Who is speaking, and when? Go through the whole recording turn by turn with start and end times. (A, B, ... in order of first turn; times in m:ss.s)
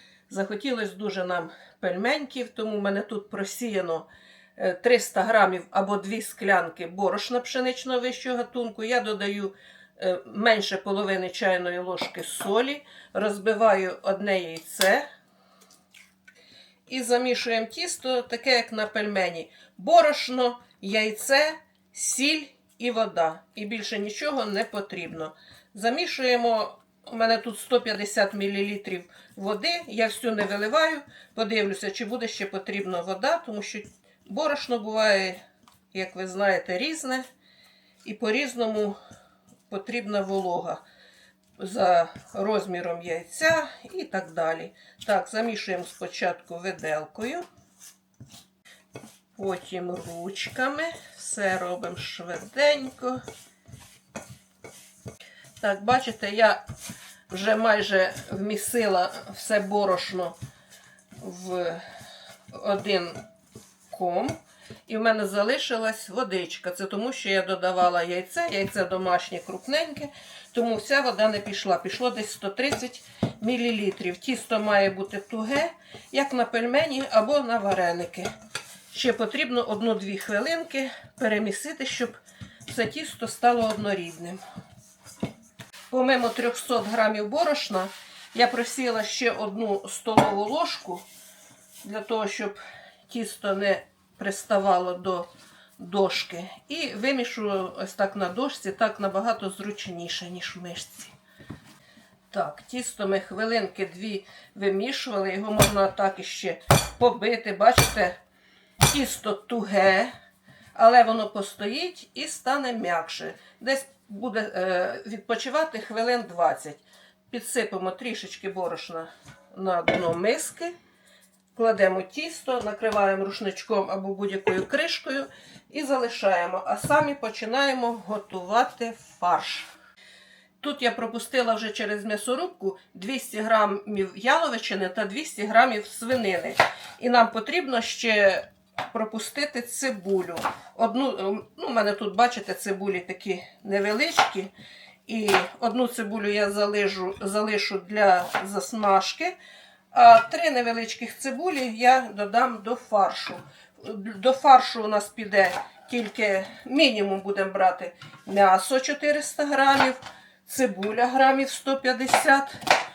0:00.3-0:15.0 A
0:16.9-0:37.3 A
0:38.0-0:39.0 A
0:39.7-0:40.8 A
0:41.6-0:47.4 A
0:49.4-0:53.2 A
0:55.6-0:56.6 A
0:57.3-1:00.4 A
1:01.2-1:01.8 A
1:02.5-1:03.2 A
1:03.9-1:04.4 A
1:04.9-1:18.3 A
1:18.9-1:22.2 A
1:22.7-1:24.4 A
1:25.9-1:31.0 A
1:31.8-1:41.1 A
1:42.3-1:48.2 A
1:48.9-1:50.1 A
1:50.8-2:00.8 A
2:01.5-2:09.7 A
2:10.6-2:24.5 A
2:25.1-2:29.3 A
2:29.9-2:42.6 A